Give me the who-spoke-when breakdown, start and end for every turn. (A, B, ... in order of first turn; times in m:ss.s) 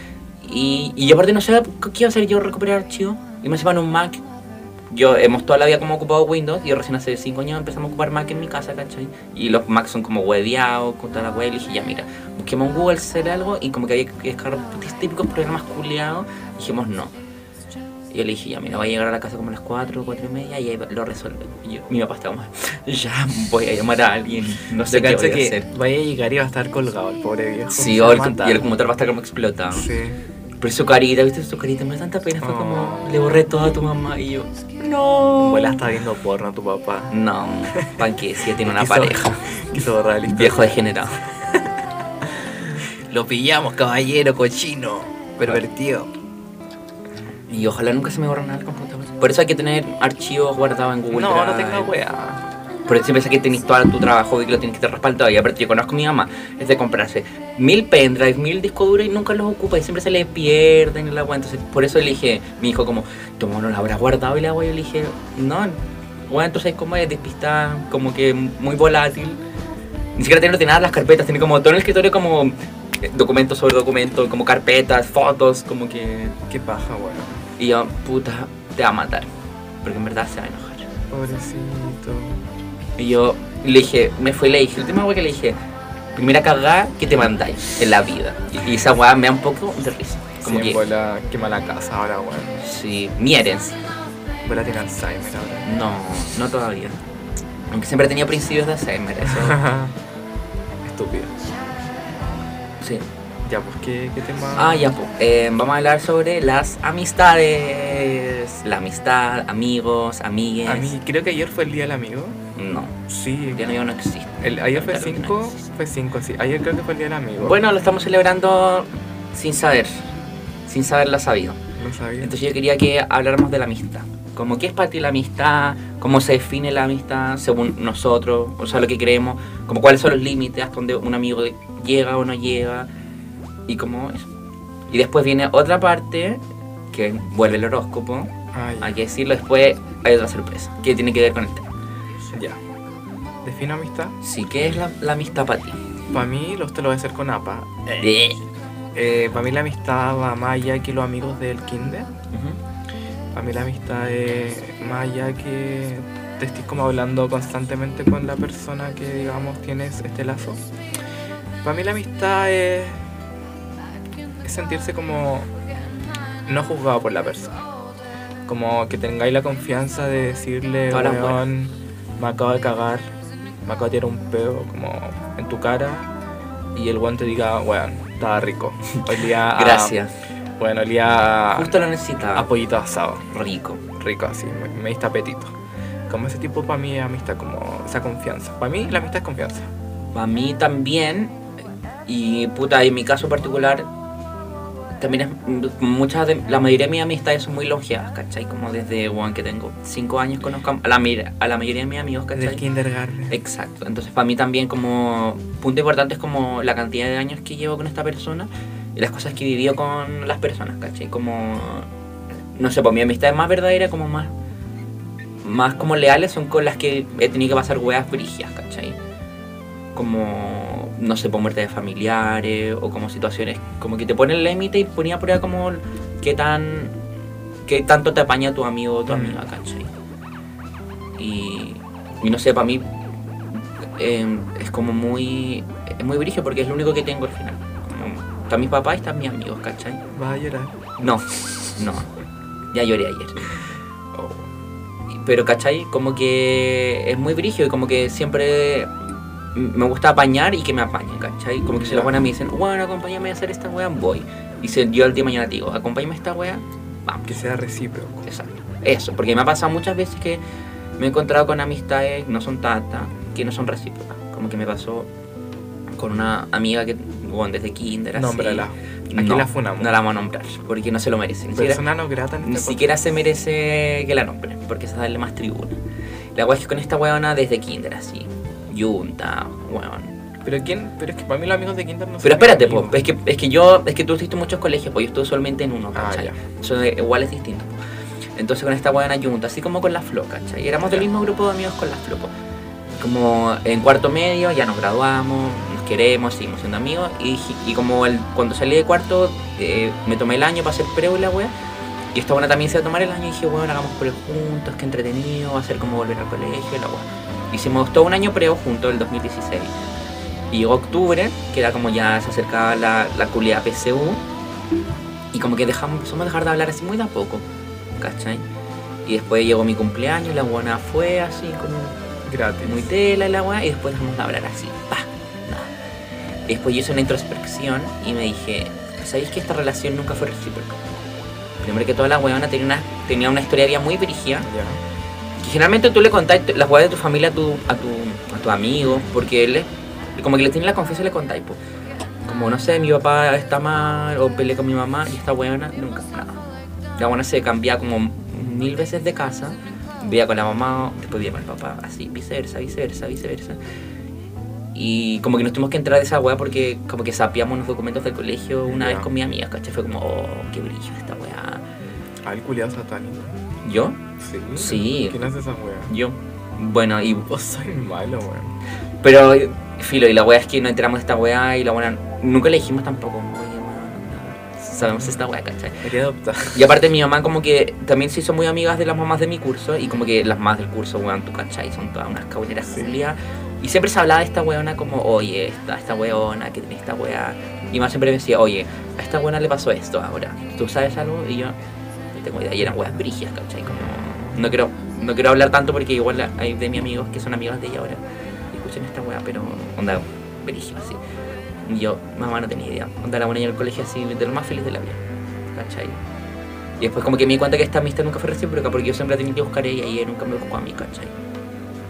0:00.4-0:04.2 A
0:04.9-0:17.1 A
0:18.1-0:25.7 A
0:24.8-0:28.7 B
0:27.7-0:29.9 A
0:29.7-0:30.2 B
0:30.6-0:35.8 A
0:32.4-0:33.2 B
0:35.4-0:37.1 B
0:37.1-0:39.6 A
0:37.7-0:46.1 B
0:40.2-0:41.2 A
0:47.5-0:51.9 A
0:51.1-0:52.4 B
0:52.9-1:09.4 A
1:10.2-1:16.4 A
1:16.5-1:17.5 B
1:17.6-1:19.3 A
1:19.8-1:20.9 A
1:21.1-1:22.4 B
1:23.0-1:25.6 A
1:26.2-1:30.8 A
1:30.4-1:32.6 B
1:32.6-1:33.8 A
1:34.4-1:35.7 B
1:35.6-1:37.0 A
1:37.7-1:39.6 A
1:39.2-1:40.0 B
1:40.8-1:41.3 B
1:42.8-1:43.1 A
1:43.4-1:45.0 B
1:44.6-1:50.9 A
1:50.6-1:52.4 B
1:52.6-1:53.0 A
1:53.1-1:53.6 B
1:53.5-1:55.7 A
1:54.4-1:57.6 B
1:57.4-2:00.1 A
2:00.7-2:01.6 A
2:01.8-2:02.3 B
2:02.2-2:12.9 A
2:13.7-2:14.3 A
2:14.9-2:21.7 A
2:18.5-2:19.0 B
2:22.3-2:22.6 B
2:23.4-2:24.2 B
2:24.2-2:25.8 A
2:26.1-2:28.2 B
2:28.0-2:28.4 A
2:28.9-2:32.1 B
2:32.3-2:32.6 A
2:33.3-2:40.7 B
2:41.6-2:43.0 B
2:44.4-2:45.5 B
2:46.5-2:47.7 B
2:48.5-2:53.1 B
2:50.9-2:51.4 A
2:53.6-2:56.1 B
2:56.8-3:00.0 B
2:59.4-3:00.1 A
3:00.6-3:01.8 B
3:01.5-3:02.5 A
3:02.4-3:03.3 B
3:03.3-3:03.8 A
3:03.9-3:05.5 B
3:06.1-3:09.7 B
3:10.1-3:11.4 A
3:12.1-3:13.9 A
3:15.0-3:22.6 A
3:22.4-3:23.4 B
3:23.3-3:31.9 A
3:32.5-3:34.3 A
3:35.4-3:39.0 A
3:39.9-3:47.0 A
3:47.6-3:49.9 A
3:49.1-3:49.4 B
3:51.2-3:52.9 A
3:54.0-4:00.0 A
4:00.1-4:00.9 B
4:01.0-4:02.1 A
4:02.7-4:03.5 A
4:04.1-4:04.5 B
4:05.1-4:08.9 A
4:09.5-4:17.4 A
4:11.7-4:12.3 B
4:17.3-4:18.3 B
4:18.2-4:20.4 A
4:21.0-4:25.1 A
4:26.0-4:31.9 A
4:28.2-4:29.9 B
4:31.6-4:32.9 B
4:32.4-4:35.8 A
4:36.4-4:40.1 A
4:40.4-4:43.0 B
4:42.2-4:47.8 A
4:45.9-4:46.4 B
4:48.4-4:52.3 A
4:50.8-4:51.1 B
4:52.9-5:01.5 A
5:02.1-5:09.7 A
5:10.5-5:14.2 A
5:15.3-5:17.5 A
5:18.0-5:18.4 A
5:19.0-5:22.0 A
5:22.3-5:22.9 B
5:22.6-5:25.7 A
5:26.5-5:30.8 A
5:31.6-5:34.5 A
5:34.4-5:34.8 B
5:35.4-5:41.6 A
5:42.3-5:46.4 A
5:47.0-5:53.6 A
5:54.7-6:01.6 A
5:58.7-5:59.1 B
6:02.2-6:03.4 B
6:03.6-6:04.0 A
6:04.2-6:05.9 B
6:04.6-6:05.2 A
6:05.9-6:07.3 A
6:07.3-6:08.6 B
6:09.0-6:15.9 A
6:14.8-6:15.2 B
6:15.8-6:16.7 B
6:16.4-6:31.6 A
6:22.7-6:22.9 B
6:32.1-6:41.0 A
6:41.6-6:45.0 A
6:45.5-6:46.0 A
6:46.8-6:51.1 A